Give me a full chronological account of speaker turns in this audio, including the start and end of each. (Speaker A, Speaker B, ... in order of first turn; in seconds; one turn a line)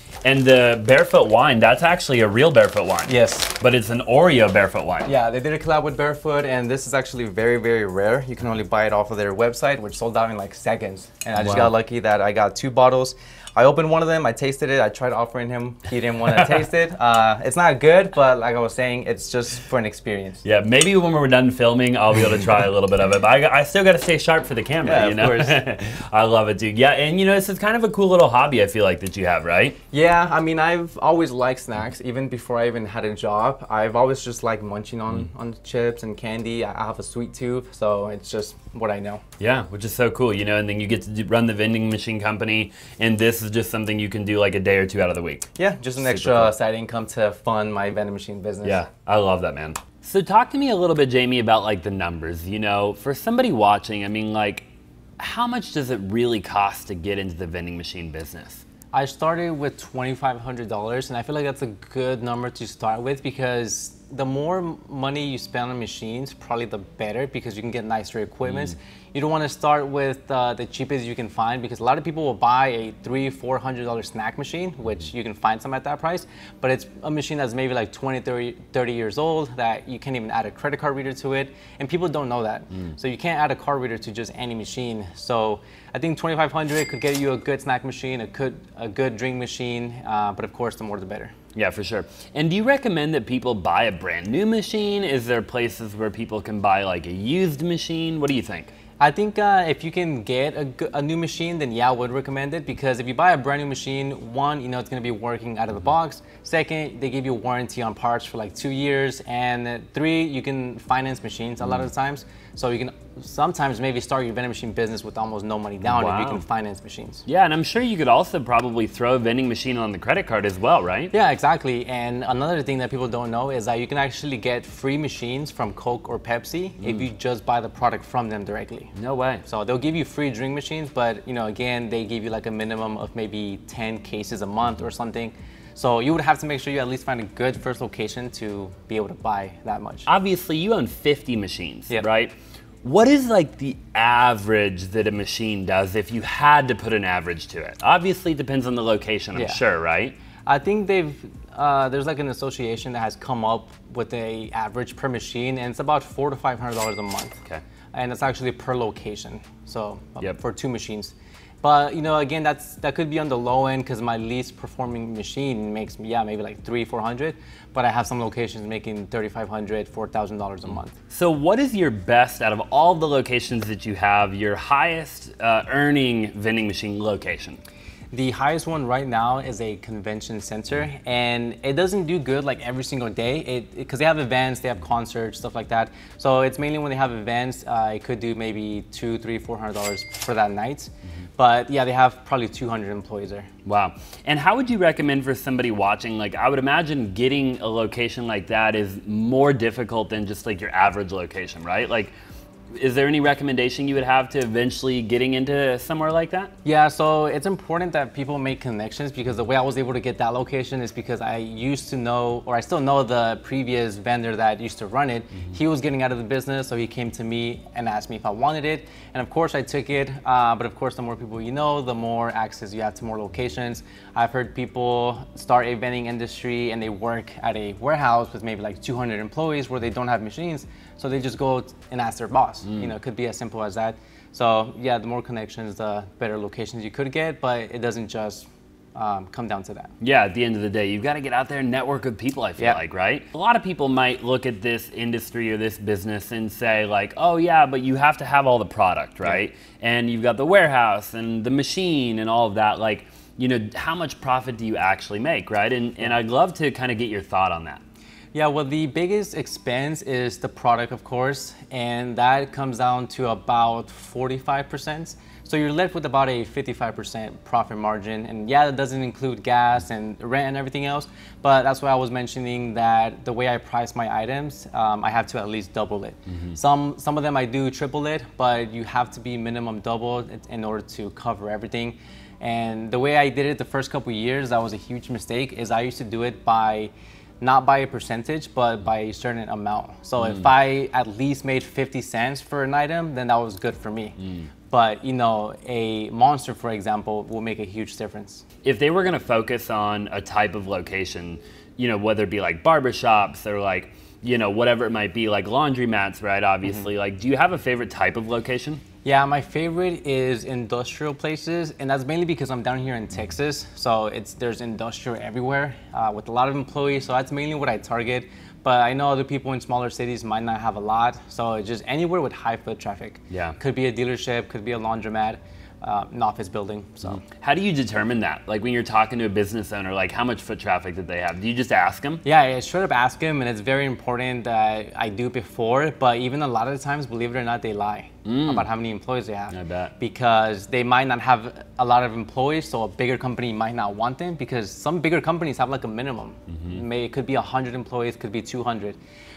Speaker A: 0.2-5.1
Speaker B: 3.1-3.5
Speaker B: 5.0-20.4
Speaker A: 11.4-11.7
Speaker A: 16.3-16.6
Speaker A: 20.4-29.8
Speaker B: 24.8-25.6
Speaker B: 29.9-39.2
Speaker A: 39.4-45.5
Speaker B: 45.6-48.8
Speaker A: 46.0-46.5
Speaker A: 48.6-54.6
Speaker A: 55.2-58.6
Speaker B: 58.9-91.3
Speaker A: 91.5-98.7
Speaker B: 99.0-117.2
Speaker A: 115.9-116.4
Speaker A: 117.2-121.1
Speaker B: 121.1-128.9
Speaker A: 128.9-129.4
Speaker B: 129.4-140.1
Speaker A: 140.1-150.1
Speaker B: 149.3-149.6
Speaker B: 150.4-157.4
Speaker B: 157.9-170.9
Speaker A: 171.1-177.6
Speaker B: 178.1-193.5
Speaker A: 193.6-202.1
Speaker A: 202.7-206.5
Speaker B: 206.6-239.9
Speaker A: 240.0-257.8
Speaker B: 258.3-294.2
Speaker A: 294.2-294.5
Speaker B: 294.7-298.4
Speaker A: 298.6-308.8
Speaker B: 309.0-327.2
Speaker A: 323.3-323.6
Speaker A: 327.2-332.2
Speaker B: 332.2-349.0
Speaker A: 338.2-338.7
Speaker A: 339.5-339.9